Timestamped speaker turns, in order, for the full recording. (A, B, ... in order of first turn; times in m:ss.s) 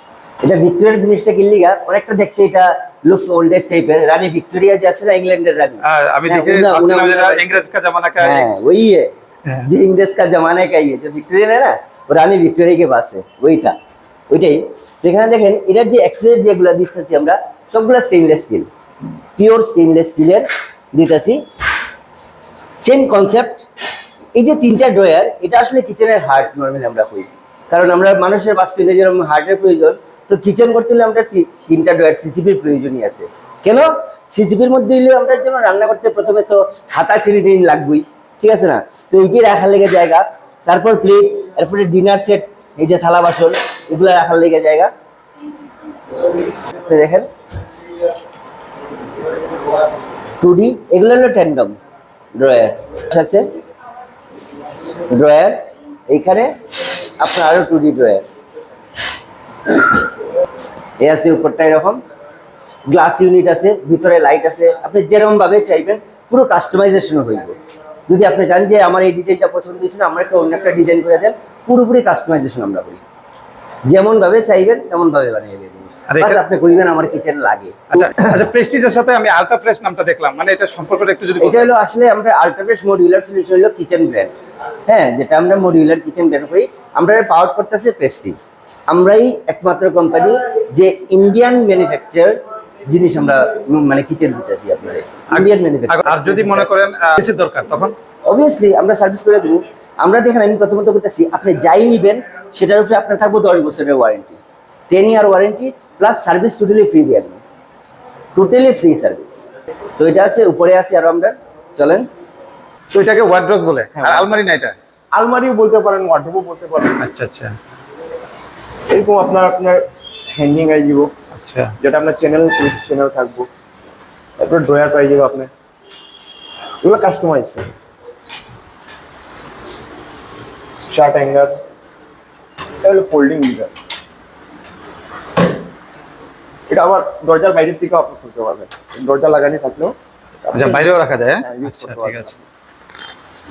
0:00.4-0:07.5 A
0:05.8-0:08.4 B
0:08.2-0:09.1 A
0:09.6-0:13.8 A
0:14.3-0:18.7 A
0:19.4-0:21.4 A
0:22.8-0:23.6 A
0:24.4-0:44.9 A
0:46.4-0:47.3 A
0:50.4-0:51.8 A
0:52.4-0:53.4 A
0:55.1-0:56.5 A
0:57.2-0:58.2 A
1:01.0-1:02.0 A
1:02.9-1:07.6 A
1:08.1-1:13.0 A
1:13.9-1:18.3 A
1:16.1-1:16.4 B
1:17.9-1:21.7 B
1:21.4-1:24.3 A
1:24.8-1:36.7 A
1:35.3-1:37.9 B
1:38.2-1:47.4 A
1:48.3-1:49.4 A
1:50.0-1:52.1 A
1:52.9-1:54.7 B
1:54.0-1:54.4 C
1:55.1-1:57.0 C
1:56.9-1:57.6 B
1:58.9-2:01.1 C
2:01.3-2:01.7 B
2:01.8-2:03.5 C
2:04.4-2:05.5 C
2:06.8-2:07.7 C
2:10.9-2:11.6 C
2:12.8-2:13.7 C
2:16.7-2:22.4 C
2:20.5-2:22.4 B